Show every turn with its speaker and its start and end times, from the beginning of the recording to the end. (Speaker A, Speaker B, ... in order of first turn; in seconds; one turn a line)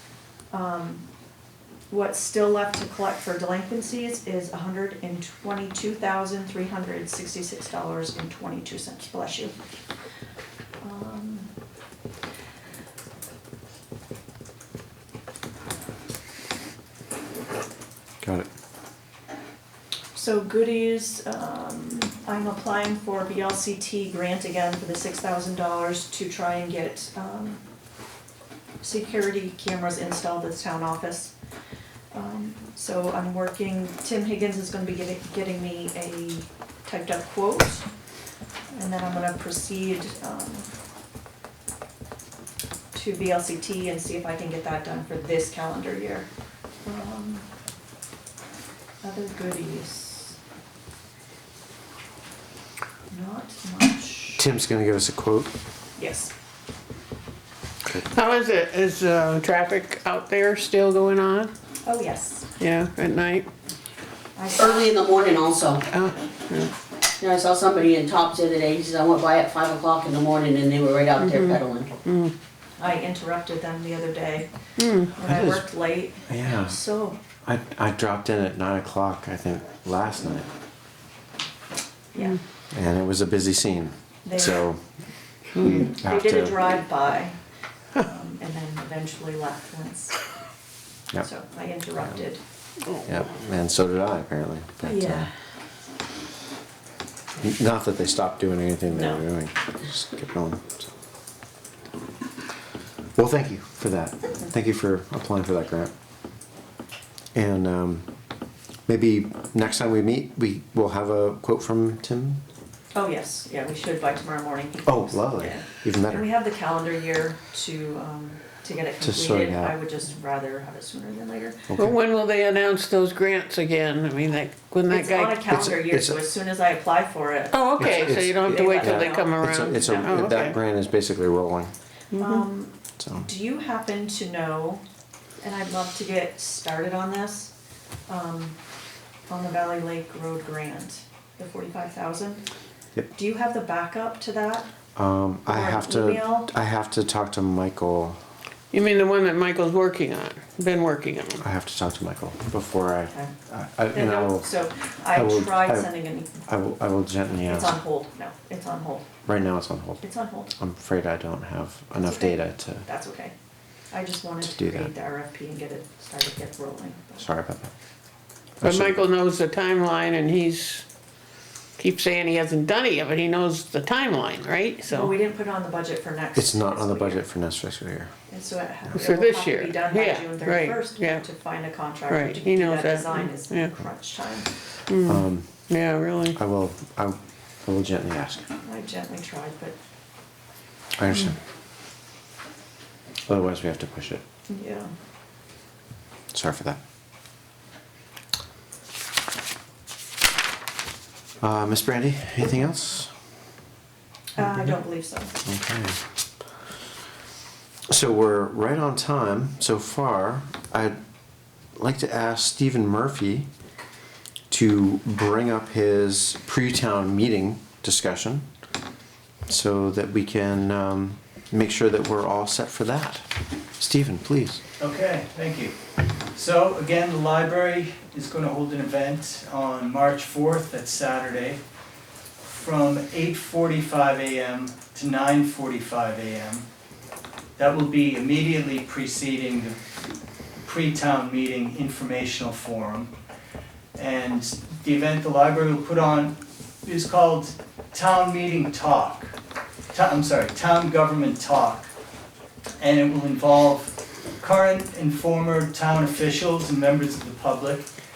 Speaker A: 0.5-1.0
Speaker A: 1.9-9.5
Speaker A: 10.8-11.5
Speaker B: 18.2-18.5
Speaker A: 20.1-27.6
Speaker A: 28.8-31.3
Speaker A: 32.1-37.9
Speaker A: 38.7-40.7
Speaker A: 42.9-46.3
Speaker A: 46.8-47.5
Speaker A: 49.0-50.4
Speaker A: 53.1-54.4
Speaker B: 54.4-55.5
Speaker A: 56.0-56.3
Speaker C: 57.9-61.5
Speaker A: 61.8-62.5
Speaker C: 62.6-63.5
Speaker A: 64.3-65.2
Speaker D: 64.5-65.8
Speaker C: 65.9-66.7
Speaker D: 67.2-71.9
Speaker C: 71.2-72.3
Speaker A: 72.8-74.5
Speaker C: 74.8-75.1
Speaker A: 75.0-77.2
Speaker B: 75.2-75.7
Speaker B: 76.2-76.8
Speaker B: 77.4-80.5
Speaker A: 82.1-82.4
Speaker B: 82.7-84.8
Speaker A: 84.2-84.6
Speaker C: 85.5-85.9
Speaker B: 85.8-86.7
Speaker A: 85.8-87.4
Speaker A: 88.0-90.2
Speaker A: 91.2-92.4
Speaker B: 93.0-95.3
Speaker A: 94.8-95.3
Speaker B: 97.4-100.9
Speaker A: 98.9-99.2
Speaker B: 103.1-105.9
Speaker B: 107.3-108.1
Speaker B: 108.9-112.4
Speaker A: 112.9-121.7
Speaker B: 114.8-116.3
Speaker B: 119.0-119.8
Speaker B: 121.7-122.0
Speaker C: 121.8-125.4
Speaker A: 124.9-129.9
Speaker B: 125.5-126.2
Speaker C: 127.5-130.6
Speaker B: 127.8-131.7
Speaker C: 132.1-132.4
Speaker A: 132.2-134.8
Speaker B: 133.0-133.3
Speaker A: 135.4-137.5
Speaker A: 138.1-138.6
Speaker A: 139.3-142.4
Speaker A: 143.1-144.7
Speaker B: 144.9-148.2
Speaker A: 145.5-146.5
Speaker C: 148.7-151.4
Speaker B: 151.4-154.5
Speaker A: 153.9-156.3
Speaker B: 155.1-157.8
Speaker A: 157.4-159.1
Speaker B: 159.2-162.9
Speaker A: 160.0-160.5
Speaker A: 162.0-163.3
Speaker A: 163.9-167.2
Speaker B: 164.4-164.9
Speaker B: 167.2-167.7
Speaker B: 168.6-169.1
Speaker C: 168.6-170.8
Speaker C: 171.8-175.1
Speaker A: 174.9-177.2
Speaker B: 176.3-178.1
Speaker A: 178.3-184.5
Speaker C: 178.9-181.2
Speaker C: 182.1-183.7
Speaker C: 184.9-186.4
Speaker B: 185.0-185.6
Speaker B: 186.3-188.5
Speaker A: 188.6-189.8
Speaker B: 191.0-191.4
Speaker B: 193.3-194.2
Speaker A: 194.5-194.9
Speaker B: 196.3-196.8
Speaker B: 201.4-203.1
Speaker A: 204.3-205.3
Speaker B: 205.4-206.0
Speaker B: 207.9-211.0
Speaker B: 211.8-213.5
Speaker B: 214.5-218.4
Speaker B: 219.5-224.6
Speaker E: 224.8-225.8
Speaker E: 226.3-231.6
Speaker E: 232.4-236.7
Speaker E: 237.6-239.8
Speaker E: 240.6-243.1
Speaker E: 243.9-249.3
Speaker E: 249.9-251.9
Speaker E: 252.8-257.9